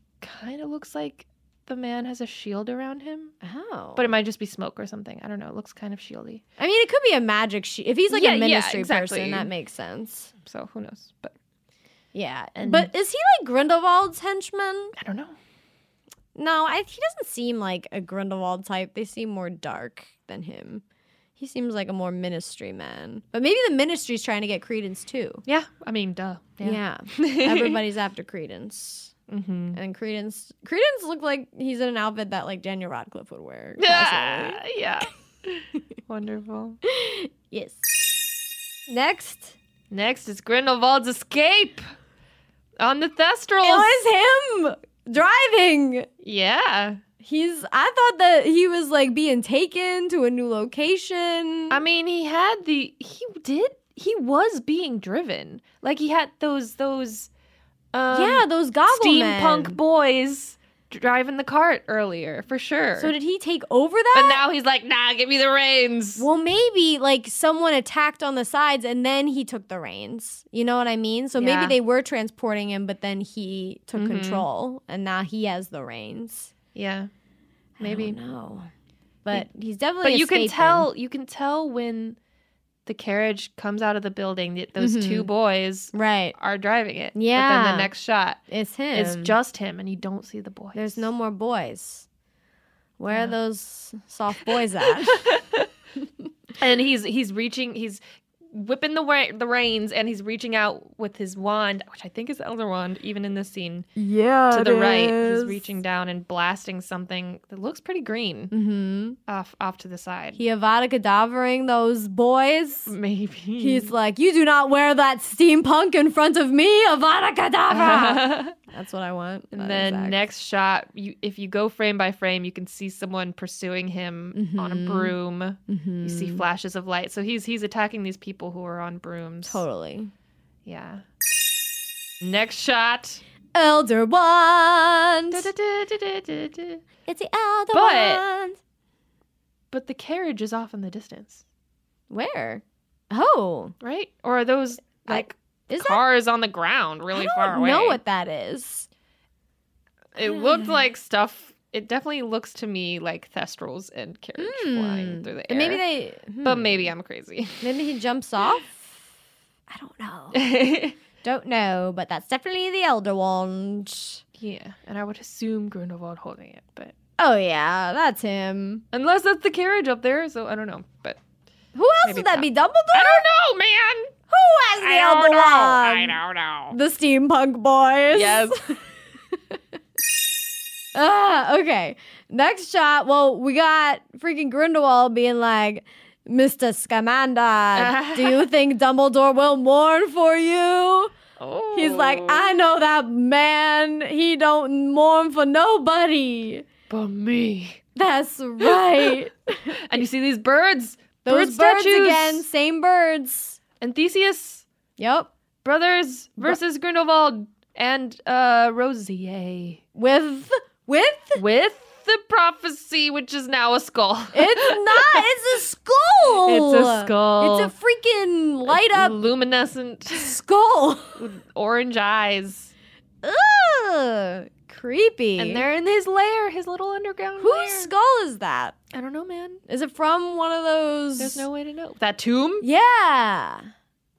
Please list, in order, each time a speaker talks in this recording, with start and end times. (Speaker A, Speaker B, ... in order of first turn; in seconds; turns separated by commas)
Speaker A: 0.2-3.3, Speaker B: 3.4-4.1, Speaker A: 4.0-6.4, Speaker B: 6.6-10.3, Speaker A: 8.1-9.5, Speaker A: 10.4-11.3, Speaker B: 12.1-14.9, Speaker A: 12.6-12.9, Speaker A: 14.9-15.3, Speaker B: 16.3-20.8, Speaker B: 21.4-25.4, Speaker A: 25.4-27.8, Speaker B: 26.6-29.1, Speaker A: 29.3-29.8, Speaker B: 29.7-34.6, Speaker A: 33.8-36.8, Speaker B: 36.9-37.9, Speaker B: 38.9-39.5, Speaker A: 39.9-41.8, Speaker A: 42.8-44.0, Speaker B: 43.6-46.1, Speaker A: 46.2-47.0, Speaker B: 47.2-51.8, Speaker A: 51.7-57.3, Speaker A: 57.9-63.1, Speaker B: 58.1-59.8, Speaker B: 63.0-64.4, Speaker A: 64.1-66.2, Speaker B: 66.2-76.5, Speaker A: 71.4-71.8, Speaker A: 73.9-74.5, Speaker A: 76.7-77.1, Speaker B: 77.8-78.7, Speaker A: 77.8-78.2, Speaker B: 79.2-80.9, Speaker A: 80.0-82.2, Speaker A: 82.8-88.4, Speaker B: 84.8-85.3, Speaker B: 85.9-86.3, Speaker B: 87.1-87.9, Speaker B: 88.5-89.3, Speaker A: 88.9-91.0, Speaker B: 90.7-92.0, Speaker B: 93.0-95.3, Speaker A: 94.4-95.7, Speaker A: 96.6-98.0, Speaker A: 98.5-103.9, Speaker B: 104.0-105.7, Speaker A: 104.5-108.5, Speaker B: 108.5-109.2, Speaker A: 109.3-110.4, Speaker B: 110.3-112.9, Speaker A: 112.9-113.9, Speaker B: 113.6-120.2, Speaker A: 117.7-118.5, Speaker A: 119.5-129.6, Speaker B: 124.3-125.1, Speaker B: 125.7-126.4, Speaker B: 129.4-130.1, Speaker A: 130.6-131.0, Speaker A: 132.2-133.2, Speaker B: 133.5-135.5, Speaker A: 135.3-136.8, Speaker B: 137.1-138.6, Speaker A: 137.7-138.2, Speaker A: 139.7-141.4, Speaker B: 142.1-143.7, Speaker A: 143.8-148.0, Speaker B: 145.1-146.0, Speaker B: 147.1-148.9, Speaker A: 150.1-155.8, Speaker B: 150.2-150.7, Speaker B: 154.4-156.9, Speaker A: 156.4-157.7, Speaker B: 157.6-159.0, Speaker B: 159.7-160.5, Speaker A: 160.3-161.0, Speaker B: 161.2-164.2, Speaker A: 164.4-166.9, Speaker B: 167.2-168.8, Speaker A: 168.9-171.2, Speaker B: 171.7-173.2, Speaker A: 172.0-174.1, Speaker B: 174.3-176.2, Speaker A: 174.8-176.8, Speaker B: 176.7-178.8, Speaker A: 178.1-178.6, Speaker B: 179.3-179.6, Speaker B: 180.9-191.1, Speaker A: 187.7-188.4, Speaker A: 191.4-192.6, Speaker B: 191.7-196.7, Speaker A: 196.9-197.8, Speaker B: 197.9-200.0, Speaker A: 198.6-199.2, Speaker A: 199.8-202.4, Speaker B: 201.2-203.6, Speaker A: 203.8-204.7, Speaker B: 205.0-205.3, Speaker A: 205.6-209.8, Speaker B: 209.9-211.4, Speaker A: 211.3-215.3, Speaker B: 214.3-219.2, Speaker A: 216.4-217.7, Speaker A: 218.7-220.3, Speaker B: 220.1-221.2, Speaker A: 221.2-222.7, Speaker B: 223.2-225.7, Speaker A: 225.4-227.9, Speaker B: 227.4-228.8, Speaker A: 228.9-229.6, Speaker B: 229.7-231.4, Speaker A: 231.2-232.7, Speaker B: 232.6-233.7